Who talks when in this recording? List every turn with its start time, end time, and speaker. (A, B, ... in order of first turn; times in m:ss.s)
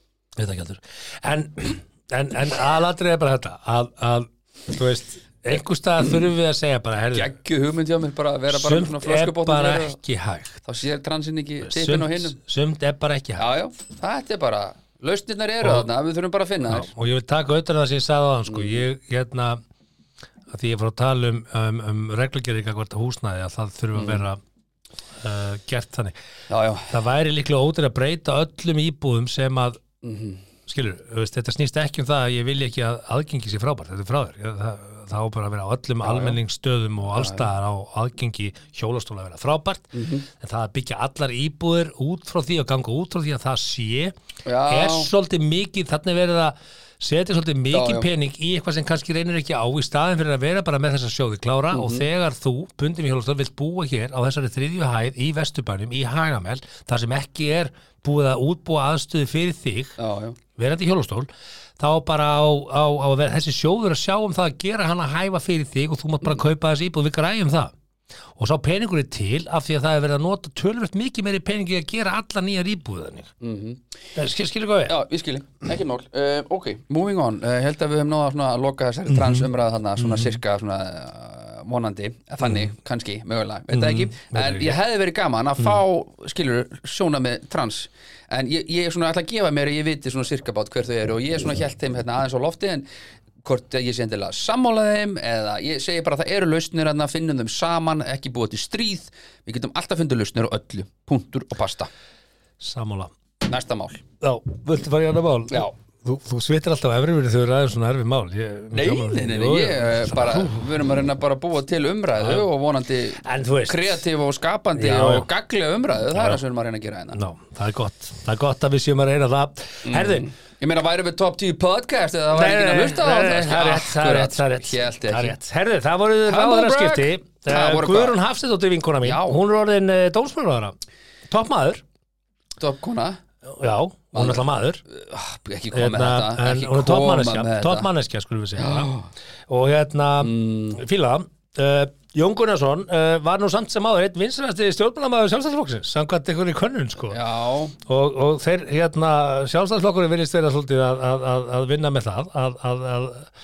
0:00.4-0:07.3 A
0:07.1-0:10.0 B
0:08.5-0:10.6 A
0:10.6-0:12.4 B
0:11.6-0:13.4 A
0:13.4-0:16.9 B
0:15.6-0:15.9 A
0:16.7-0:19.6 A
0:18.5-0:18.8 B
0:20.5-0:24.4 A
0:23.9-0:24.2 B
0:25.2-0:26.1 A
0:26.5-0:26.9 B
0:26.9-0:29.8 A
0:30.0-0:30.4 B
0:30.7-0:44.1 A
0:36.0-0:36.4 B
0:37.1-0:37.4 B
0:39.9-0:40.2 B
0:44.4-0:45.1 B
0:44.7-1:00.0 A
0:47.7-0:48.1 B
0:51.7-0:52.0 B
1:00.0-1:00.4 B
1:00.6-1:01.3 A
1:01.8-1:07.7 A
1:08.4-1:13.3 A
1:13.4-1:13.8 B
1:14.2-1:15.0 A
1:14.9-1:32.8 B
1:19.1-1:19.5 A
1:20.0-1:20.4 A
1:23.7-1:24.8 A
1:33.4-1:41.9 B
1:42.6-1:43.1 A
1:43.4-1:44.0 B
1:44.2-1:50.8 A
1:48.7-1:57.2 B
1:52.2-1:52.4 A
1:53.2-1:54.0 A
1:54.8-1:55.3 A
1:56.1-1:56.4 A
1:57.1-2:00.2 A
1:59.8-2:05.4 B
2:02.3-2:10.7 A
2:06.2-2:08.2 B
2:09.0-2:09.4 B
2:11.3-2:11.8 A
2:12.6-2:13.2 B
2:13.4-2:14.8 A
2:14.1-2:17.9 B
2:15.7-2:18.9 A
2:18.6-2:19.1 B
2:19.5-2:27.2 A
2:20.2-2:20.8 B
2:27.1-2:27.8 B
2:27.8-2:33.3 A